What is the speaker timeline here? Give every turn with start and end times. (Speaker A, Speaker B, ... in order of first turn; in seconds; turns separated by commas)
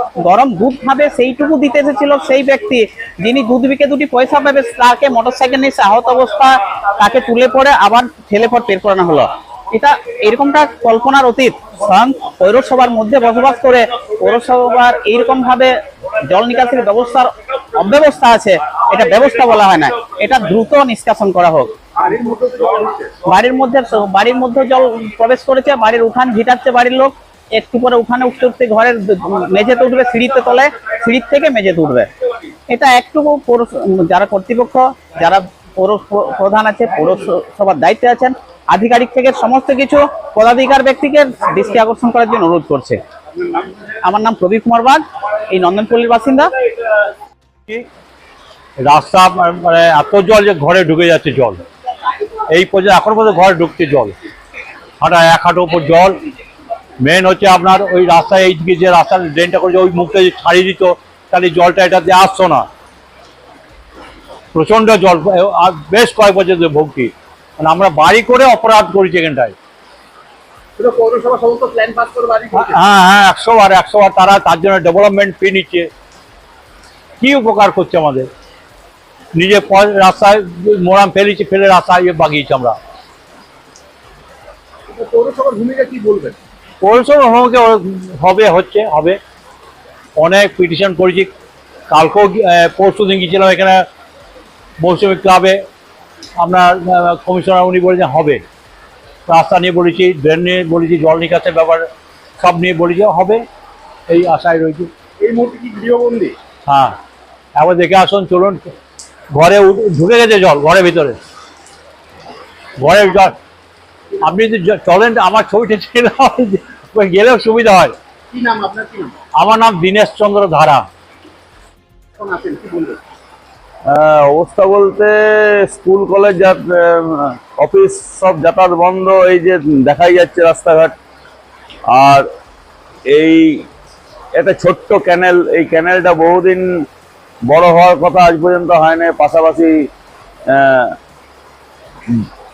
Speaker A: 0.2-21.7, Speaker B: 22.0-23.1, Speaker A: 23.2-32.1, Speaker A: 32.7-43.0, Speaker A: 44.0-46.5, Speaker C: 48.8-51.6, Speaker C: 52.5-54.1, Speaker C: 55.0-56.2, Speaker C: 57.0-62.7, Speaker C: 64.5-69.5, Speaker B: 70.8-72.8, Speaker C: 72.5-75.9, Speaker C: 77.2-78.3, Speaker C: 79.3-82.8, Speaker B: 84.9-86.3, Speaker C: 86.8-89.2, Speaker C: 90.2-91.3, Speaker C: 91.9-93.8, Speaker C: 94.8-95.6, Speaker C: 96.4-98.4, Speaker C: 99.3-101.9, Speaker C: 102.4-103.5, Speaker C: 104.1-104.9, Speaker B: 105.2-106.3, Speaker C: 106.7-107.0, Speaker C: 107.5-108.7, Speaker C: 109.3-111.2, Speaker C: 112.8-113.3, Speaker C: 114.2-117.9, Speaker B: 118.3-119.1, Speaker C: 119.4-120.9, Speaker B: 122.2-123.0, Speaker D: 123.9-130.9, Speaker D: 131.9-132.2, Speaker D: 133.1-133.7, Speaker D: 134.3-136.6, Speaker D: 137.5-139.9, Speaker D: 140.5-140.9